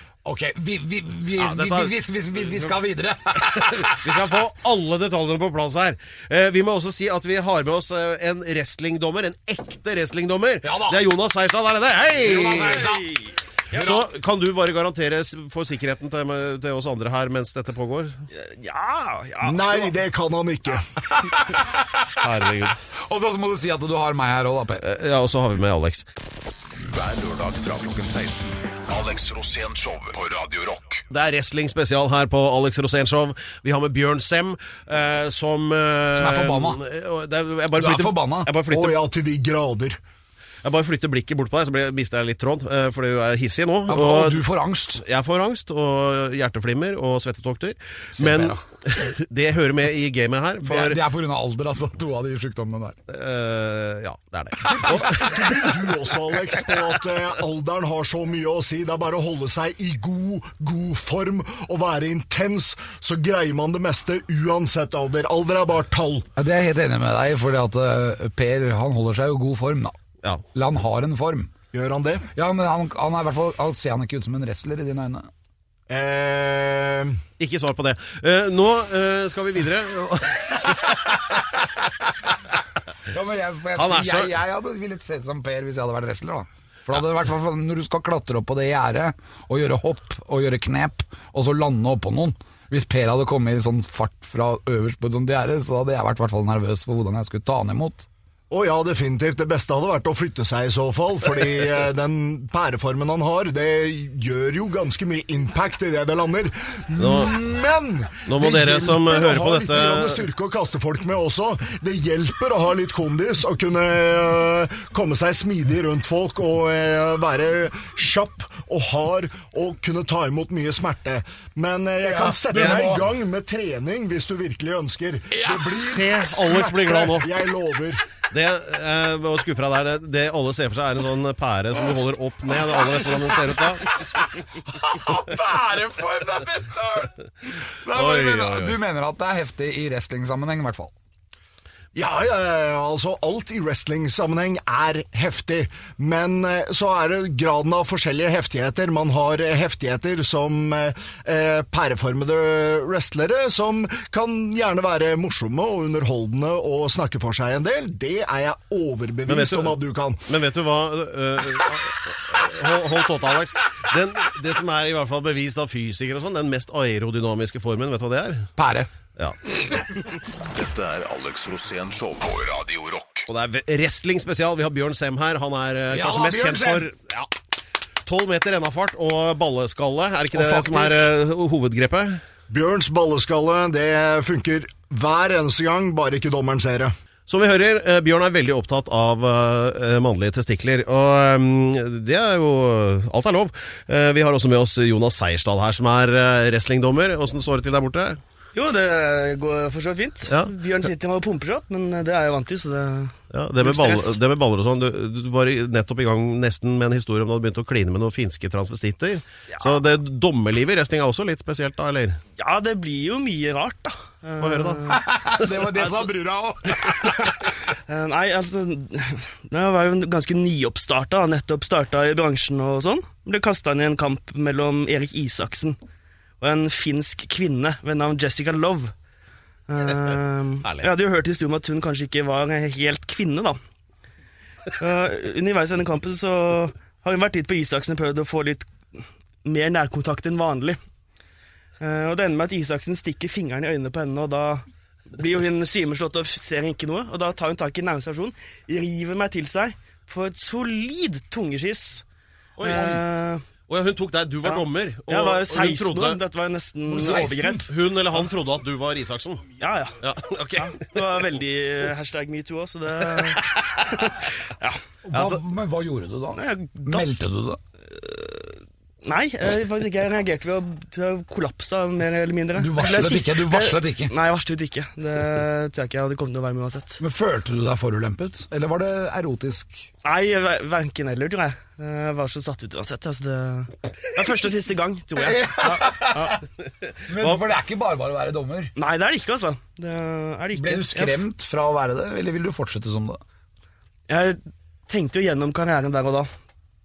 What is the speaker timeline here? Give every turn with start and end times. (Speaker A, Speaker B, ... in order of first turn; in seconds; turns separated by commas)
Speaker A: 0.2-4.1, Speaker B: 1.4-1.9, Speaker B: 3.4-12.9, Speaker A: 10.6-11.0, Speaker A: 12.2-13.2, Speaker C: 12.4-13.9, Speaker A: 13.7-14.0, Speaker B: 13.7-18.2, Speaker C: 18.3-20.0, Speaker D: 19.4-21.1, Speaker A: 21.3-22.1, Speaker B: 22.1-22.8, Speaker A: 23.1-24.8, Speaker B: 24.8-26.1, Speaker E: 26.8-31.0, Speaker B: 31.1-39.0, Speaker A: 36.1-36.8, Speaker A: 37.8-38.5, Speaker D: 38.7-40.0, Speaker B: 40.6-44.5, Speaker A: 43.9-45.0, Speaker B: 45.0-51.0, Speaker A: 48.1-48.6, Speaker A: 50.6-53.0, Speaker B: 53.1-55.7, Speaker D: 54.6-66.3, Speaker A: 54.8-55.1, Speaker A: 66.4-70.0, Speaker A: 70.5-71.5, Speaker D: 71.7-72.3, Speaker A: 72.3-75.3, Speaker D: 75.9-77.2, Speaker B: 77.4-81.2, Speaker A: 80.7-82.3, Speaker A: 83.1-98.1, Speaker B: 83.8-84.3, Speaker D: 98.5-128.1, Speaker B: 107.0-107.4, Speaker B: 108.3-110.2, Speaker A: 122.0-123.1, Speaker B: 122.5-122.9, Speaker A: 125.3-126.0, Speaker B: 125.7-127.3, Speaker B: 128.3-133.9, Speaker A: 132.8-133.3, Speaker A: 134.0-137.2, Speaker A: 137.8-140.9, Speaker B: 137.9-138.8, Speaker D: 141.9-160.2, Speaker B: 159.3-168.5, Speaker A: 168.6-168.9, Speaker E: 170.4-173.3, Speaker B: 173.3-177.3, Speaker A: 175.9-176.9, Speaker B: 178.1-182.2, Speaker A: 180.3-181.1, Speaker D: 182.5-186.9, Speaker B: 187.3-198.2, Speaker C: 198.5-204.2, Speaker B: 203.3-212.2, Speaker C: 212.4-215.0, Speaker B: 214.4-214.8, Speaker A: 214.9-217.4, Speaker C: 215.6-216.1, Speaker C: 216.7-225.8, Speaker C: 226.4-228.9, Speaker C: 229.7-233.6, Speaker C: 234.8-240.8, Speaker C: 241.8-252.1, Speaker B: 252.6-253.0, Speaker C: 252.6-253.4, Speaker B: 253.7-256.2, Speaker C: 254.5-257.7, Speaker A: 256.9-257.7, Speaker B: 257.6-259.4, Speaker C: 259.6-260.0, Speaker B: 260.0-260.9, Speaker C: 260.6-264.8, Speaker A: 265.1-267.6, Speaker B: 265.1-265.4, Speaker C: 266.3-267.1, Speaker C: 268.0-277.0, Speaker A: 272.6-274.1, Speaker A: 277.0-279.9, Speaker C: 280.0-286.4, Speaker A: 285.2-286.4, Speaker A: 287.1-288.7, Speaker C: 288.8-291.2, Speaker A: 290.6-293.2, Speaker C: 294.1-296.3